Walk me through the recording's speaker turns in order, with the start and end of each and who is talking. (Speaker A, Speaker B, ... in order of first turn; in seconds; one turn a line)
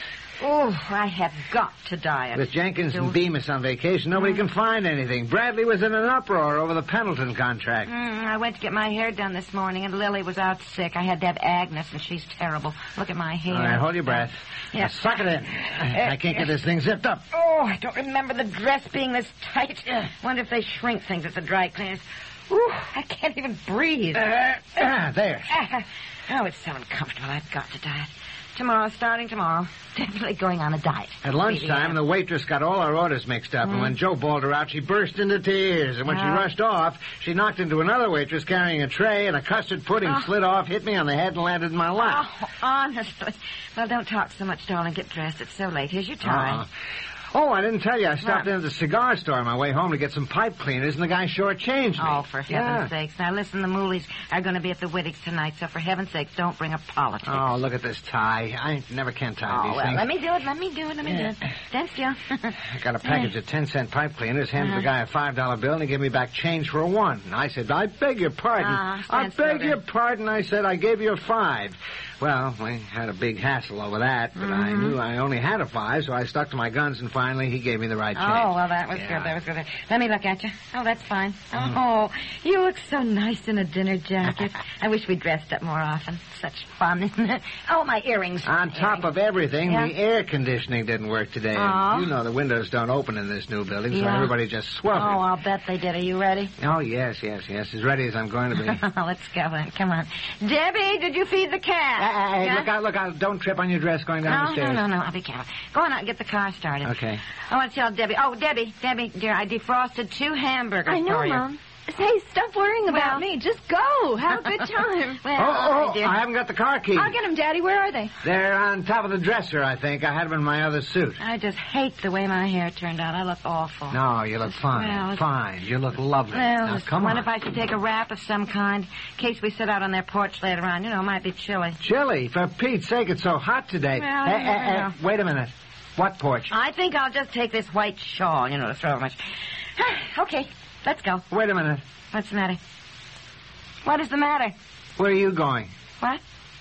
Speaker A: 0.4-3.2
Speaker B: 2.3-7.9
Speaker A: 7.9-15.1
Speaker B: 13.5-17.2
Speaker A: 15.9-16.5
Speaker A: 17.3-24.3
Speaker B: 24.1-25.5
Speaker A: 25.5-32.0
Speaker B: 31.2-42.2
Speaker A: 33.6-33.9
Speaker A: 36.1-36.5
Speaker A: 42.0-46.6
Speaker B: 46.2-46.7
Speaker B: 47.3-52.9
Speaker A: 48.2-48.5
Speaker A: 52.0-57.6
Speaker B: 57.3-60.1
Speaker A: 59.5-63.3
Speaker B: 62.7-79.3
Speaker A: 64.6-64.8
Speaker A: 68.6-69.8
Speaker A: 74.4-75.0
Speaker A: 78.1-89.1
Speaker B: 88.4-95.2
Speaker A: 89.7-89.9
Speaker A: 91.5-92.1
Speaker A: 93.9-94.3
Speaker A: 94.9-96.5
Speaker B: 96.6-98.8
Speaker A: 98.6-102.7
Speaker B: 102.0-104.8
Speaker A: 104.2-106.9
Speaker B: 106.8-107.2
Speaker A: 107.5-111.5
Speaker C: 110.8-115.2
Speaker A: 112.9-113.2
Speaker A: 115.2-116.2
Speaker B: 115.4-117.2
Speaker C: 116.9-118.1
Speaker B: 118.2-121.2
Speaker A: 121.2-125.2
Speaker B: 123.9-127.3
Speaker A: 126.3-131.8
Speaker B: 131.8-136.5
Speaker A: 133.9-134.9
Speaker A: 136.5-139.2
Speaker A: 139.8-141.2
Speaker B: 141.3-141.8
Speaker A: 142.1-142.6
Speaker A: 143.8-144.5
Speaker B: 145.0-145.7